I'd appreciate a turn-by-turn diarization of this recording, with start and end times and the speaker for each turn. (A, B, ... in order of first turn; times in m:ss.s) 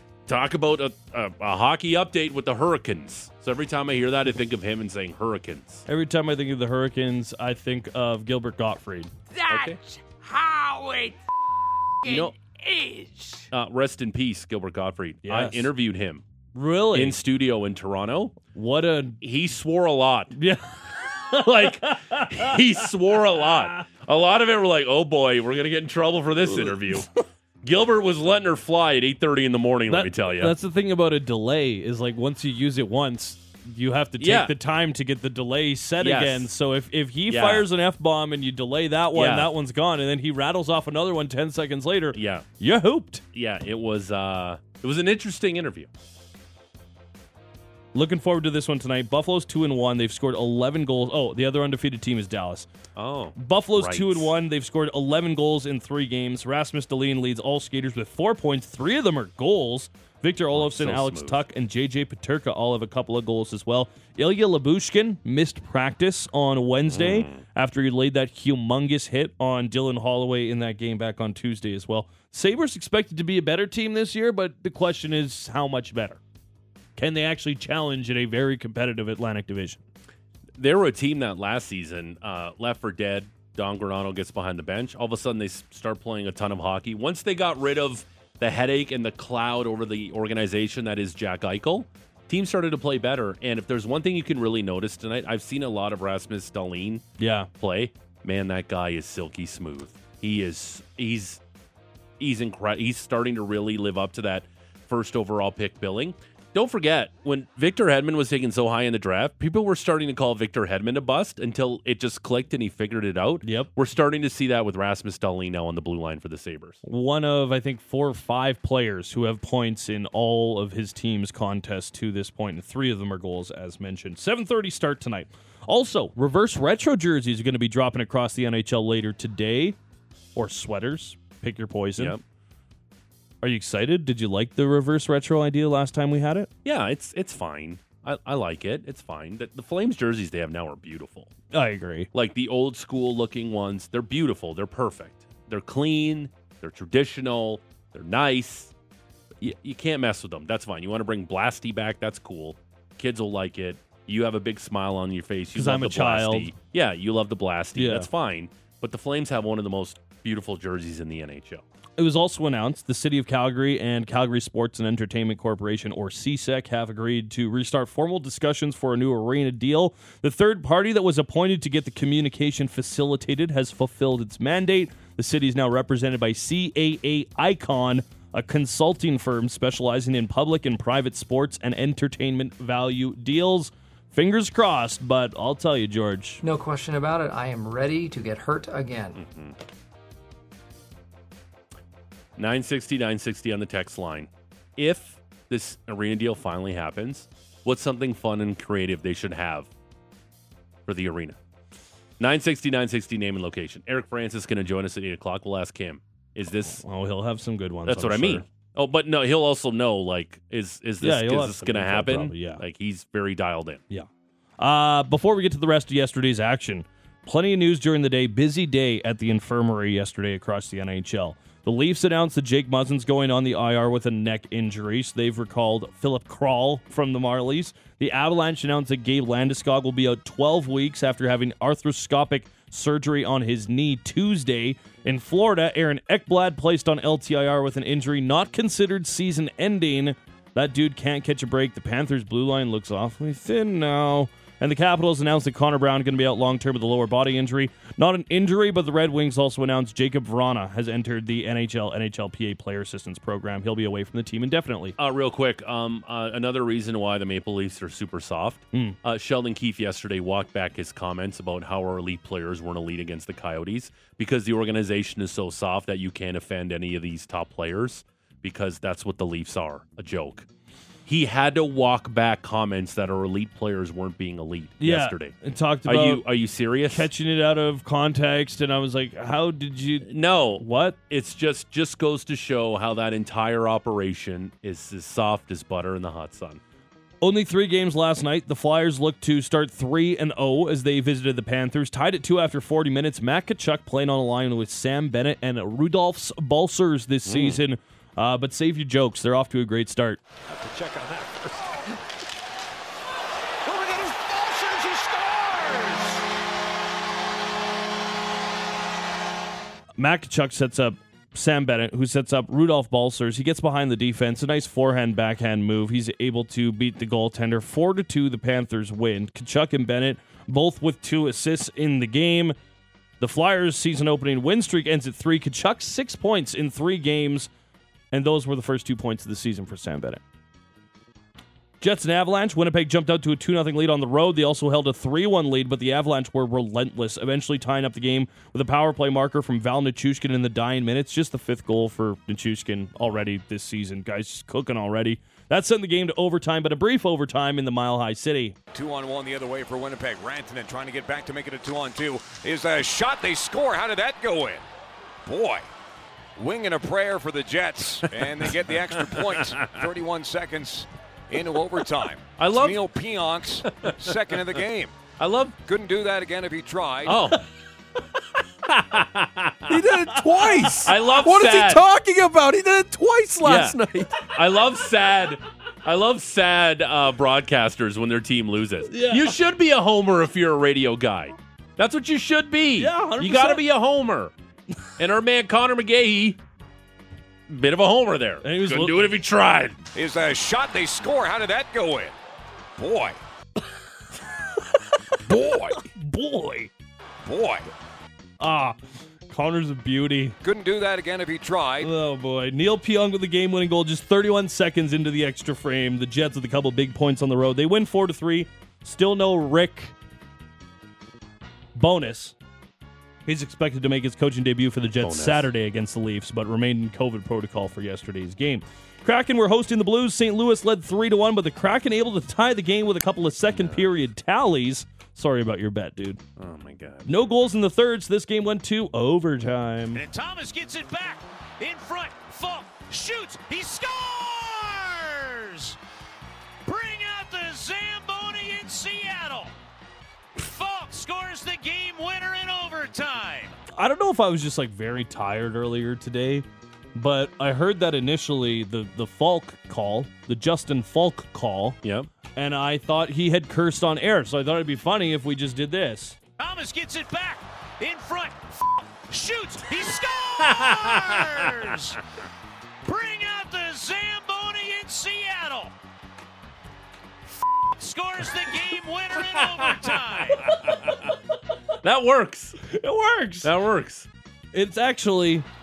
0:00.3-0:05.8 A
0:05.9-0:09.1 B
0:09.3-0:11.1 C
0:09.5-0:09.8 A
0:12.0-0:12.4 A
0:12.0-0:13.4 C
0:13.5-0:16.2 A
0:15.2-0:15.7 B
0:16.6-0:17.2 B
0:16.9-0:18.4 A
0:18.5-0:19.2 B
0:19.2-0:20.4 A
0:20.4-0:22.9 B
0:21.4-0:27.1 A
0:26.7-0:27.0 B
0:27.6-0:30.5 A
0:29.9-0:43.2 B
0:34.2-0:34.5 A
0:36.0-0:36.5 A
0:37.3-0:37.7 A
0:39.1-0:39.5 A
0:42.1-0:42.4 A
0:43.4-0:45.9 A
0:47.9-0:52.7 B
0:53.0-0:54.3 A
0:53.4-1:16.2 B
1:00.5-1:01.4 A
1:06.9-1:07.4 A
1:17.0-1:19.8 B
1:20.6-1:37.0 A
1:37.2-1:37.5 B
1:37.6-1:41.4 A
1:42.2-1:56.8 A
1:53.4-1:53.7 B
1:56.8-2:09.8 B
2:10.4-2:12.2 B
2:13.4-2:16.5 B
2:16.6-2:21.3 A
2:21.5-2:22.1 B
2:22.1-2:28.7 A
2:29.4-2:41.6 A
2:35.6-2:36.5 B
2:37.8-2:38.1 B
2:42.0-3:06.4 B
3:06.4-3:09.2 D
3:09.1-3:09.6 A
3:12.4-3:19.7 A
3:20.9-3:21.4 A
3:22.2-3:26.8 A
3:26.6-3:28.5 B
3:27.9-3:33.8 A
3:31.0-3:32.6 B
3:34.6-4:15.0 B
4:15.0-4:30.5 A
4:31.1-4:37.1 A
4:34.8-4:36.2 B
4:36.9-4:41.0 B
4:40.0-4:46.6 A
4:47.2-5:00.2 B
4:57.3-4:57.6 A
5:03.7-5:06.2 C
5:10.0-5:22.6 B
5:23.2-5:27.5 B
5:28.1-5:30.2 B
5:31.8-5:48.6 B
5:48.7-5:54.6 E
5:55.2-5:55.7 E
5:56.4-6:05.0 E
6:02.4-6:02.9 A
6:03.7-6:04.1 A
6:05.2-6:05.6 A
6:05.6-6:07.3 E
6:07.0-6:07.4 A
6:08.7-6:09.8 A
6:09.7-6:14.2 F
6:10.8-6:11.8 A
6:13.4-6:24.3 A
6:18.9-6:19.4 B
6:22.8-6:23.6 B
6:25.0-6:26.4 A
6:27.5-6:29.8 A
6:28.4-6:29.0 B
6:30.0-6:32.2 E
6:32.8-6:33.2 E
6:35.2-6:35.8 E
6:35.9-6:36.7 B
6:37.2-6:37.7 E
6:38.4-6:38.8 B
6:39.3-6:40.4 B
6:40.4-6:41.9 E
6:41.8-6:49.9 B
6:51.8-6:52.4 B
6:53.3-7:06.2 B
6:55.0-6:55.5 A
7:03.5-7:03.9 A
7:06.4-7:07.1 A
7:07.0-7:10.0 B
7:09.9-7:15.8 C
7:16.6-7:19.5 C
7:20.4-7:23.6 C
7:23.8-7:31.8 B
7:31.8-7:32.1 A
7:32.4-7:36.2 B
7:36.4-7:42.0 C
7:42.8-7:45.8 C
7:47.8-7:50.5 C
7:50.4-7:51.1 A
7:51.8-7:52.6 A
7:52.7-7:53.5 B
7:53.4-7:54.1 A
7:54.5-7:55.5 B